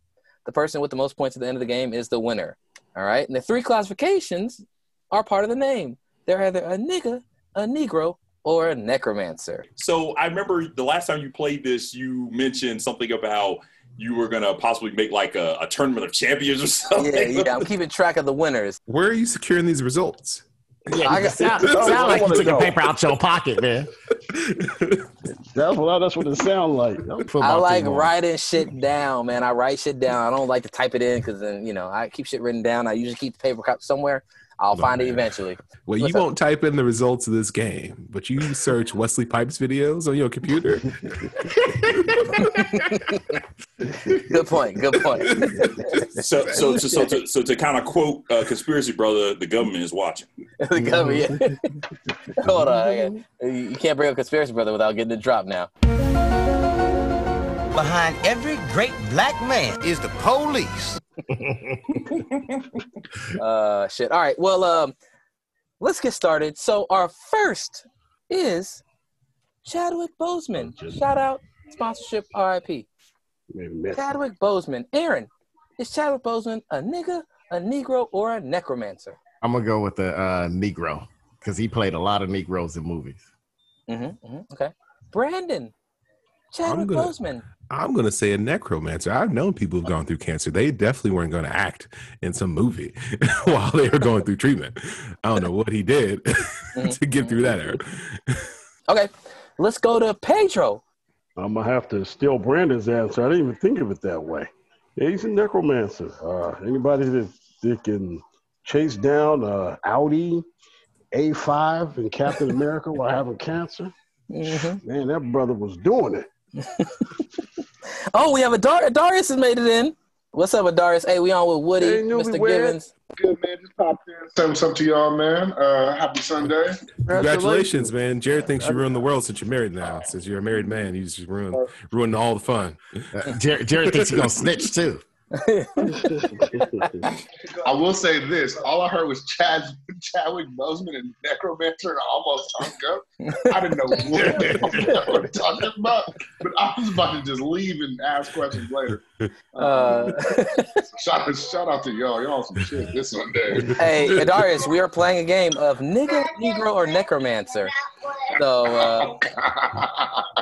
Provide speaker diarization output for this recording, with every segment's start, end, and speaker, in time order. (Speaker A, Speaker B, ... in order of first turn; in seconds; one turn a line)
Speaker A: 0.5-9.7
Speaker B: 9.8-17.6
Speaker A: 16.9-18.8
Speaker C: 18.9-20.4
Speaker D: 20.9-23.9
Speaker A: 21.0-22.2
Speaker E: 21.6-22.8
Speaker E: 25.5-27.1
Speaker D: 27.1-28.1
Speaker A: 27.4-36.3
Speaker C: 34.7-35.3
Speaker C: 35.9-40.9
Speaker A: 42.4-43.2
Speaker A: 44.1-46.0
Speaker B: 46.2-50.3
Speaker A: 50.6-51.7
Speaker A: 52.4-55.7
Speaker F: 57.7-61.0
Speaker A: 63.4-65.0
Speaker A: 65.8-68.8
Speaker A: 69.6-72.9
Speaker E: 70.6-71.0
Speaker E: 73.5-74.2
Speaker A: 73.9-79.2
Speaker D: 79.4-83.2
Speaker A: 83.9-85.7
Speaker A: 86.5-87.5
Speaker C: 86.6-87.2
Speaker C: 87.7-98.4
Speaker A: 96.7-97.6
Speaker A: 98.9-100.8
Speaker E: 101.4-110.5
Speaker E: 111.1-113.9
Speaker A: 114.3-114.8
Speaker E: 114.7-116.3
Speaker A: 118.1-122.9
Speaker E: 121.8-122.8
Speaker G: 123.2-126.8
Speaker E: 127.1-127.8
Speaker C: 127.1-132.8
Speaker D: 133.1-135.0
Speaker A: 135.3-136.1
Speaker E: 136.1-137.1
Speaker G: 137.6-149.0
Speaker G: 149.6-150.1
Speaker A: 149.6-150.8
Speaker G: 151.0-153.8
Speaker A: 153.8-157.7
Speaker A: 158.3-159.2
Speaker G: 158.7-160.2